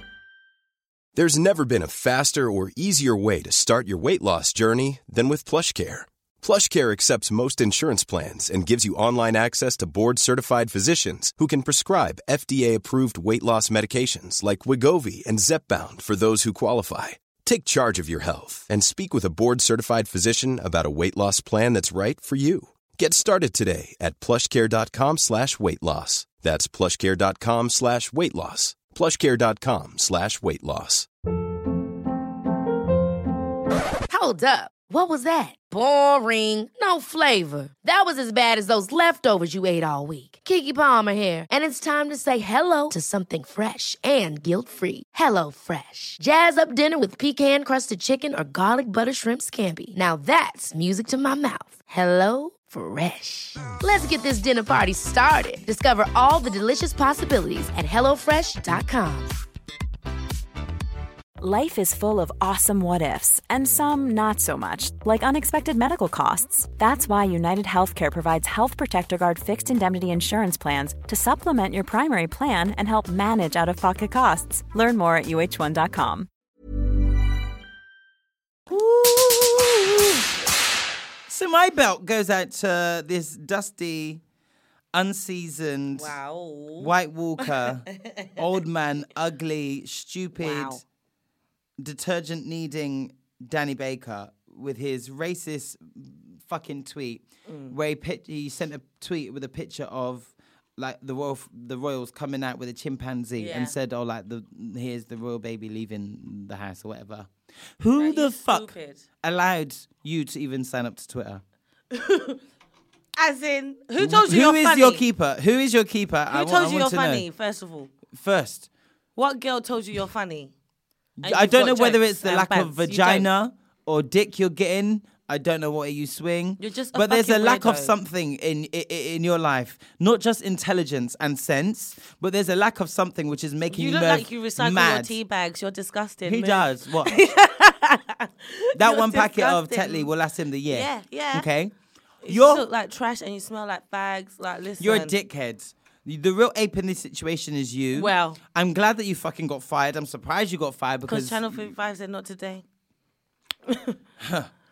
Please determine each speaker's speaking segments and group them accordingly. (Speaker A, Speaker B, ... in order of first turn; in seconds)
Speaker A: 1.1-31.1
Speaker B: 34.1-59.4
Speaker C: 61.4-76.3
Speaker D: 78.7-80.1, 81.3-84.2, 84.9-86.1, 86.8-90.8, 91.8-108.7, 109.2-111.4, 114.0-117.2, 118.1-118.7, 121.2-135.1, 136.2-137.2, 138.7-141.7, 142.2-142.7, 144.8-151.7, 154.2-154.5
Speaker E: 86.0-88.4, 90.4-90.8, 97.5-97.7, 103.4-103.7, 108.0-109.0, 111.9-112.4, 113.2-115.0, 116.3-117.9, 119.2-120.5, 121.2-123.3, 126.6-127.9, 133.7-140.1, 140.7-141.5, 142.2-145.1, 147.9-148.4, 151.1-152.6, 153.7-154.0